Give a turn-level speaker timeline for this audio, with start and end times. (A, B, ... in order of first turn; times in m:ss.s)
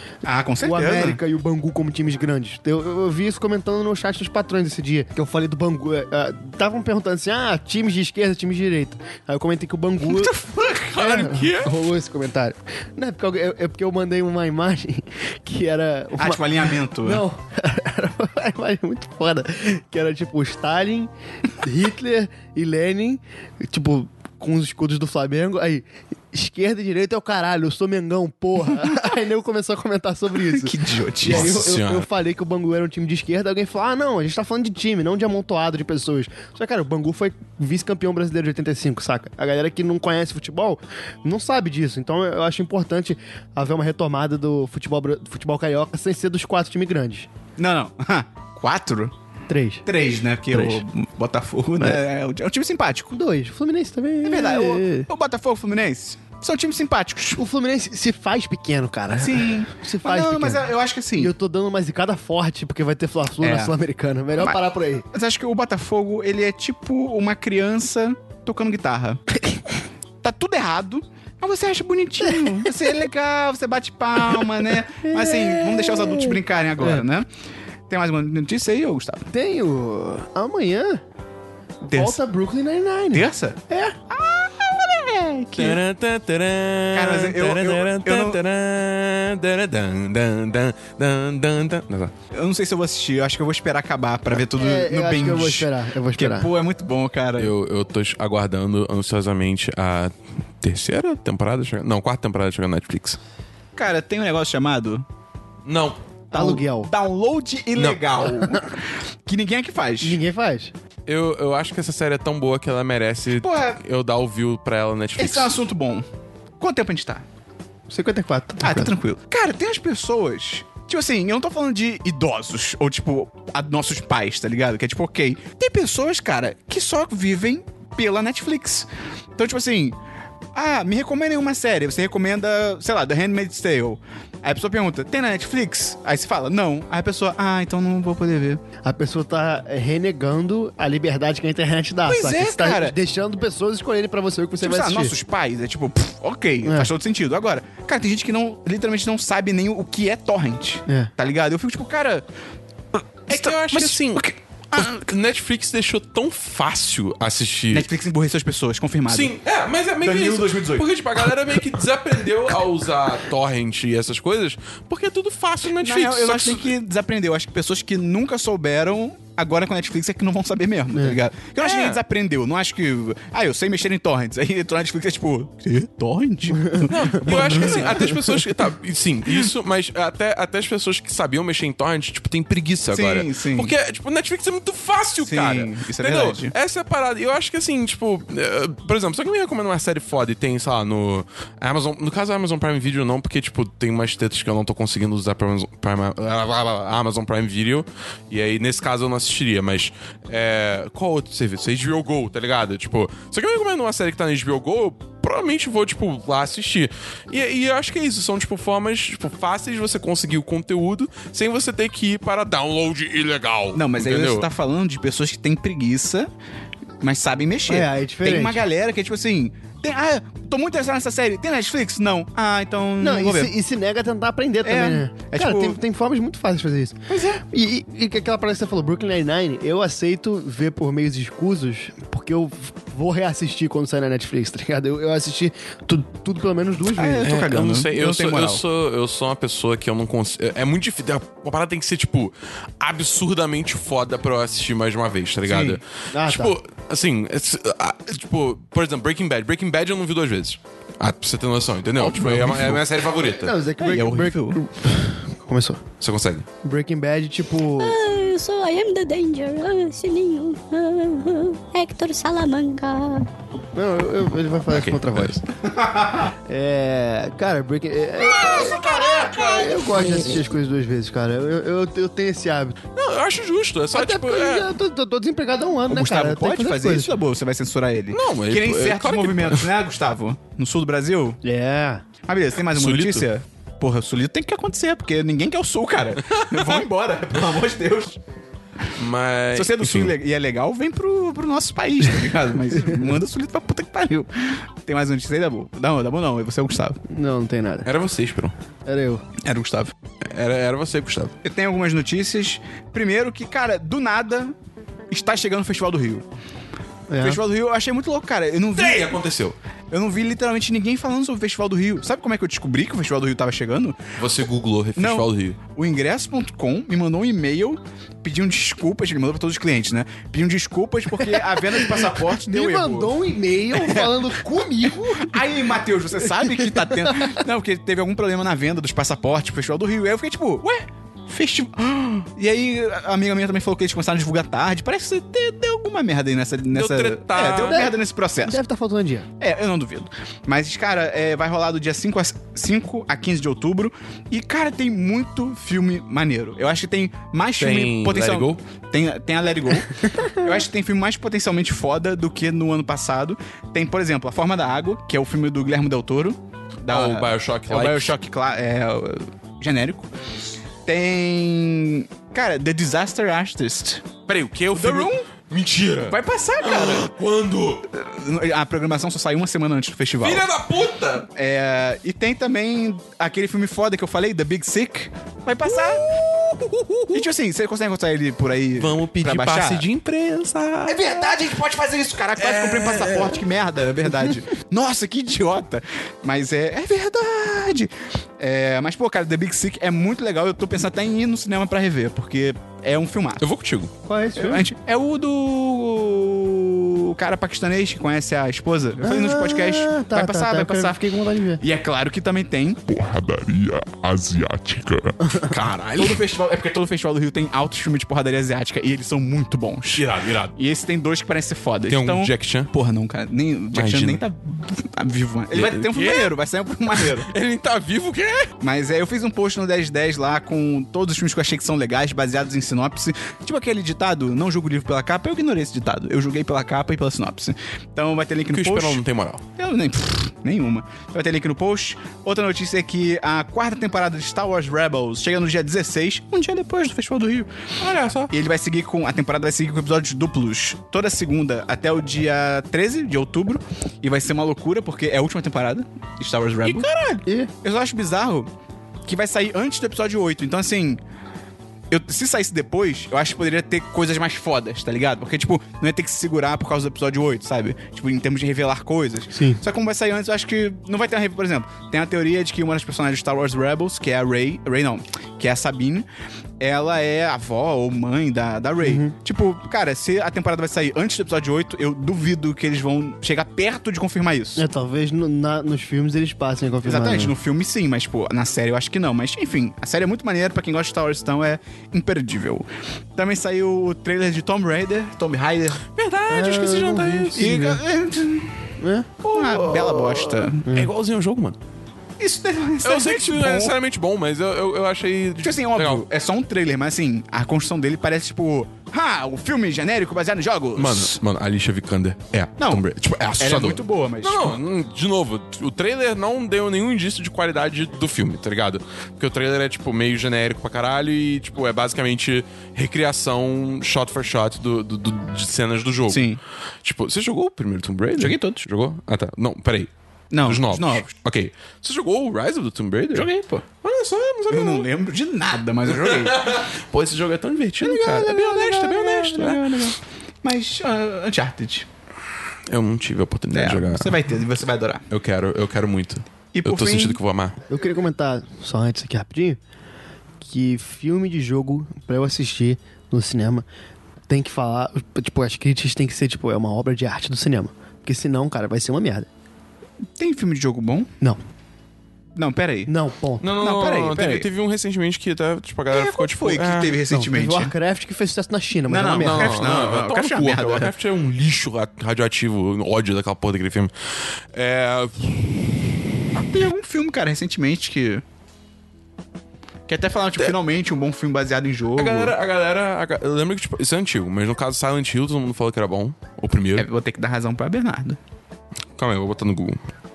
0:00.2-0:01.2 A
0:00.6-0:10.3 B
0:10.2-0:10.7 A
0:10.3-0:11.8 C
0:11.0-0:47.3 B
0:16.2-0:17.2 A
0:30.3-0:31.6 A
0:31.2-0:32.0 C
0:47.6-0:49.1 A
0:49.5-0:49.8 B
0:49.8-0:53.1 A
0:53.1-0:55.1 B
0:54.2-0:57.4 A
0:57.4-1:05.0 B
0:59.1-1:01.3 A
1:03.4-1:03.7 A
1:05.1-1:09.2 A
1:10.2-1:17.3 A
1:12.4-1:12.7 B
1:15.0-1:17.0 B
1:17.9-1:19.3 A
1:19.3-1:21.0 B
1:21.8-1:24.0 B
1:21.9-1:22.2 A
1:23.1-1:25.8 A
1:25.6-1:32.1 C
1:26.9-1:28.4 A
1:32.3-1:37.5 A
1:34.4-1:36.5 B
1:37.4-1:43.2 C
1:43.7-1:45.0 A
1:45.6-1:46.0 C
1:46.3-1:46.9 B
1:46.3-1:48.7 A
1:47.8-1:48.1 C
1:49.2-1:50.2 A
1:50.0-1:50.7 B
1:51.1-1:55.5 C
1:53.3-1:53.8 A
1:55.2-1:56.0 A
1:56.6-1:57.2 A
1:57.9-1:58.9 B
1:58.6-2:10.0 A
2:10.5-2:18.6 A
2:18.8-2:25.1 B
2:22.0-2:23.0 A
2:24.6-2:32.2 A
2:26.6-2:26.9 B
2:33.3-2:34.9 A
2:33.3-2:37.9 C
2:37.7-2:39.3 A
2:39.1-2:46.7 C
2:40.0-2:40.9 A
2:45.7-2:58.4 A
2:51.6-2:52.0 C
2:56.8-3:34.5 C
3:02.9-3:03.7 A
3:05.2-3:06.5 A
3:33.7-3:36.3 A
3:37.0-3:43.5 A
3:37.7-3:38.6 B
3:43.0-3:57.3 B
3:44.6-3:45.8 A
3:47.1-3:47.4 A
3:56.9-3:58.6 A
3:57.2-4:13.6 C
4:05.4-4:05.8 A
4:06.1-4:06.5 B
4:12.0-4:12.8 A
4:13.2-4:15.8 B
4:13.8-4:14.6 A
4:16.0-4:16.4 C
4:16.6-4:18.0 B
4:17.8-4:23.3 D
4:23.7-4:25.4 B
4:24.7-4:25.4 C
4:25.6-4:26.3 A
4:26.5-4:28.8 B
4:28.2-4:29.8 C
4:28.5-4:29.7 A
4:29.4-4:32.8 B
4:32.9-4:34.7 C
4:33.9-4:37.1 B
4:35.9-4:41.4 A
4:38.1-4:39.7 C
4:41.4-4:42.0 B
4:42.2-4:48.2 A
4:42.7-4:43.2 C
4:46.2-4:46.8 C
4:48.9-4:50.1 C
4:49.5-4:57.0 A
4:57.1-4:57.9 B
4:57.8-4:58.5 C
4:58.8-4:59.2 B
4:59.4-4:59.9 A
5:00.2-5:01.3 C
5:01.4-5:04.5 A
5:05.1-5:06.2 A
5:07.1-5:07.4 B
5:07.2-5:09.2 A
5:08.7-5:09.6 C
5:09.9-5:14.0 A
5:14.2-5:15.6 C
5:15.0-5:23.2 A
5:21.5-5:25.4 B
5:23.7-5:38.6 A
5:26.3-5:27.4 B
5:36.7-5:37.8 C
5:37.5-5:39.3 B
5:39.4-6:00.1 A
5:47.6-5:48.6 C
5:56.9-5:58.1 C
6:00.8-6:04.1 A
6:04.3-6:07.8 C
6:04.7-6:05.3 A
6:06.1-6:07.1 A
6:07.9-6:10.5 A
6:10.2-6:11.3 C
6:11.3-6:16.0 A
6:15.7-6:17.2 C
6:17.1-6:19.9 A
6:18.8-6:21.3 C
6:20.8-6:33.4 A
6:22.4-6:23.4 C
6:33.4-6:33.9 C
6:34.1-6:34.7 B
6:34.4-6:41.0 A
6:39.0-6:41.6 B
6:41.6-6:42.8 A
6:42.9-6:45.2 E
6:45.4-6:46.2 C
6:46.0-6:50.0 A
6:49.9-6:50.5 C
6:50.6-6:57.3 A
6:51.9-6:52.7 C
6:53.7-6:54.2 C
6:55.5-6:56.3 C
6:57.0-6:58.5 C
6:58.6-7:09.0 A
7:08.5-7:09.4 C
7:09.6-7:17.5 A
7:17.8-7:18.3 C
7:18.3-7:28.5 A
7:26.6-7:27.2 C
7:27.2-7:27.5 B
7:29.0-7:31.0 A
7:31.9-7:46.0 A
7:39.3-7:39.6 B
7:46.6-7:54.6 A
7:48.8-7:49.1 B
7:54.6-7:57.3 B
7:56.8-8:05.8 A
8:06.0-8:07.7 C
8:06.3-8:07.8 B
8:07.4-8:08.6 A
8:08.8-8:09.1 B
8:09.2-8:11.6 C
8:09.3-8:10.7 A
8:12.2-8:13.7 A
8:12.8-8:16.0 C
8:15.4-8:21.2 A
8:20.8-8:39.9 C
8:22.6-8:24.6 A
8:36.1-8:36.4 A
8:38.2-8:38.6 A
8:40.3-8:41.0 A
8:40.4-8:43.3 C
8:43.1-8:43.6 A
8:43.8-8:44.9 C
8:44.5-8:46.6 A
8:46.0-8:49.9 C
8:47.8-8:51.9 A
8:52.7-8:54.1 C
8:53.5-8:55.0 A
8:55.1-8:57.6 C
8:56.5-8:57.2 A
8:57.7-8:59.6 B
9:00.4-9:03.6 B
9:04.3-9:09.3 B
9:10.2-9:11.1 A
9:12.4-9:12.9 A
9:12.9-9:13.4 B
9:13.4-9:17.0 C
9:13.5-9:14.5 A
9:15.9-9:17.7 A
9:17.1-9:19.6 B
9:18.9-9:20.9 A
9:19.2-9:23.9 C
9:24.5-9:26.0 C
9:26.3-9:28.2 A
9:29.9-9:32.3 A
9:32.0-9:36.9 C
9:36.7-9:38.2 A
9:39.0-9:39.8 C